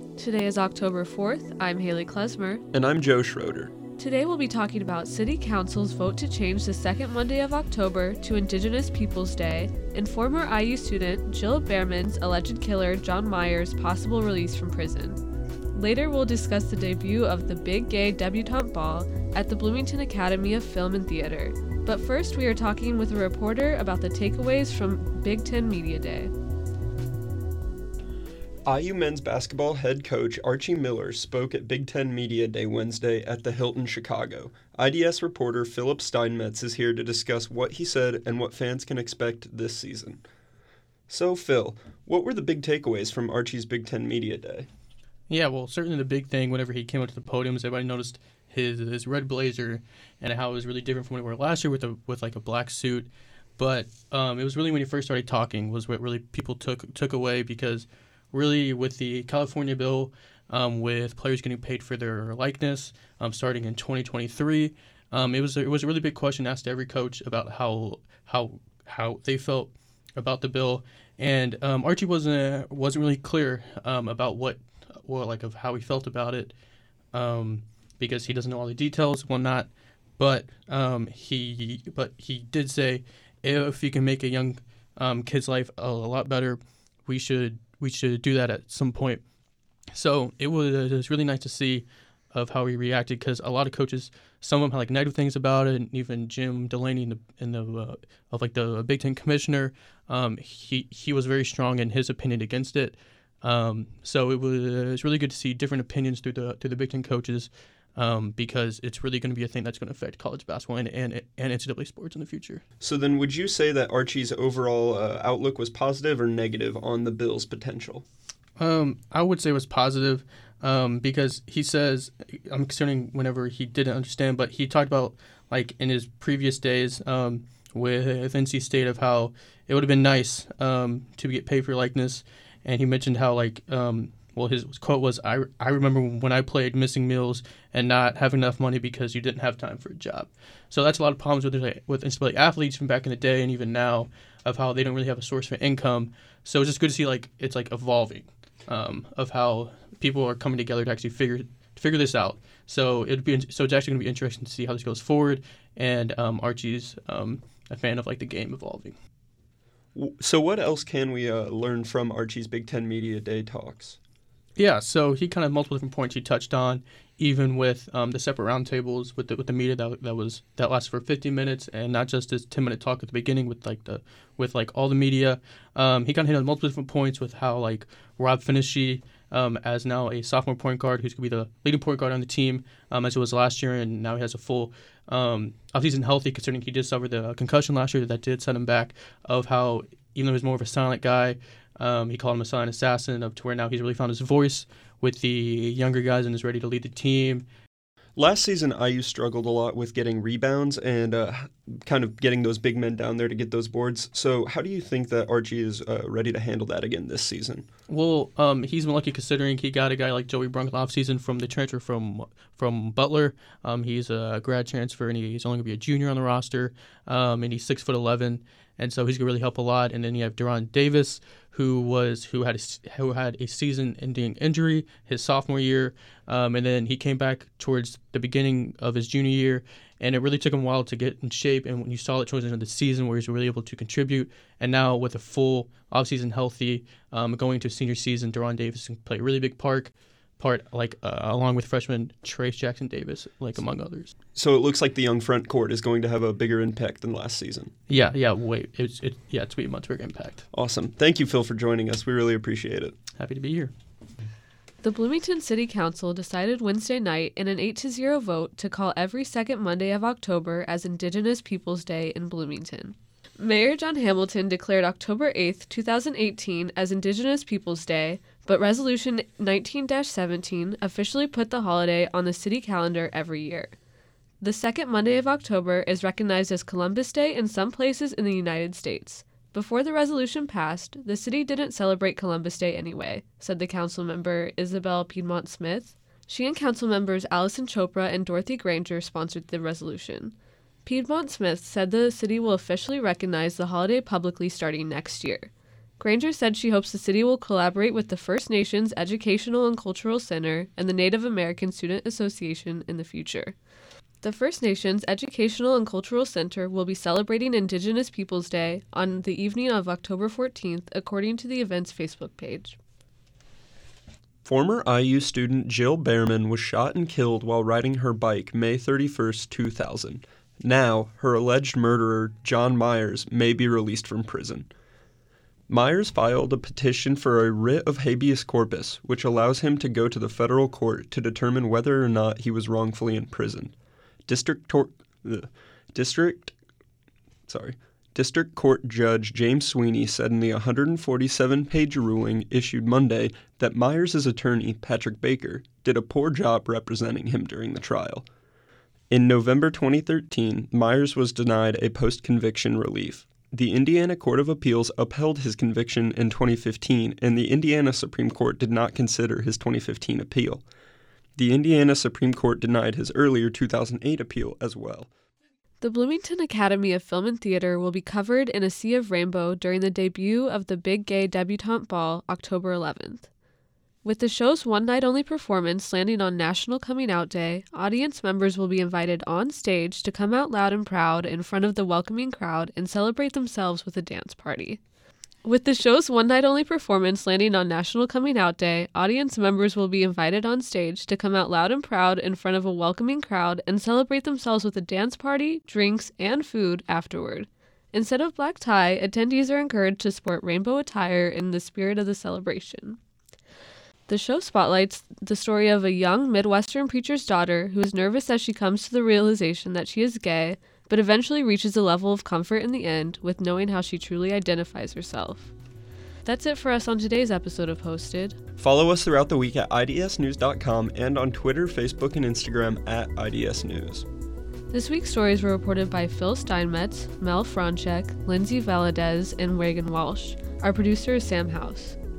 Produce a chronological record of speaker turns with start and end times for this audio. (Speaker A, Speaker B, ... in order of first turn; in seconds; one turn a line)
Speaker A: 0.2-2.6
Speaker B: 2.7-3.8
Speaker A: 4.0-15.2
Speaker A: 15.7-26.3
Speaker B: 28.7-40.2
Speaker B: 41.1-44.7
Speaker C: 45.3-76.5
Speaker C: 77.1-89.2
Speaker C: 89.9-112.6
Speaker B: 112.8-118.0
Speaker C: 118.6-158.9
Speaker B: 159.9-164.0
Speaker C: 164.6-197.5
Speaker B: 198.2-207.7
Speaker C: 207.9-244.1
Speaker B: 244.3-247.7
Speaker C: 247.9-250.4
Speaker B: 250.5-252.9
Speaker C: 253.2-253.7
Speaker A: 254.8-273.7
Speaker A: 274.4-303.6
Speaker A: 304.2-312.8
Speaker B: 314.4-324.7
Speaker B: 325.7-333.7
Speaker B: 334.3-336.5
Speaker B: 337.5-348.3
Speaker B: 349.1-360.6
Speaker B: 361.4-365.1
Speaker A: 365.8-373.3
Speaker A: 374.0-384.8
Speaker A: 385.4-403.0
Speaker A: 404.1-415.5
Speaker A: 416.2-418.4
Speaker B: 418.6-424.1
Speaker A: 424.7-432.0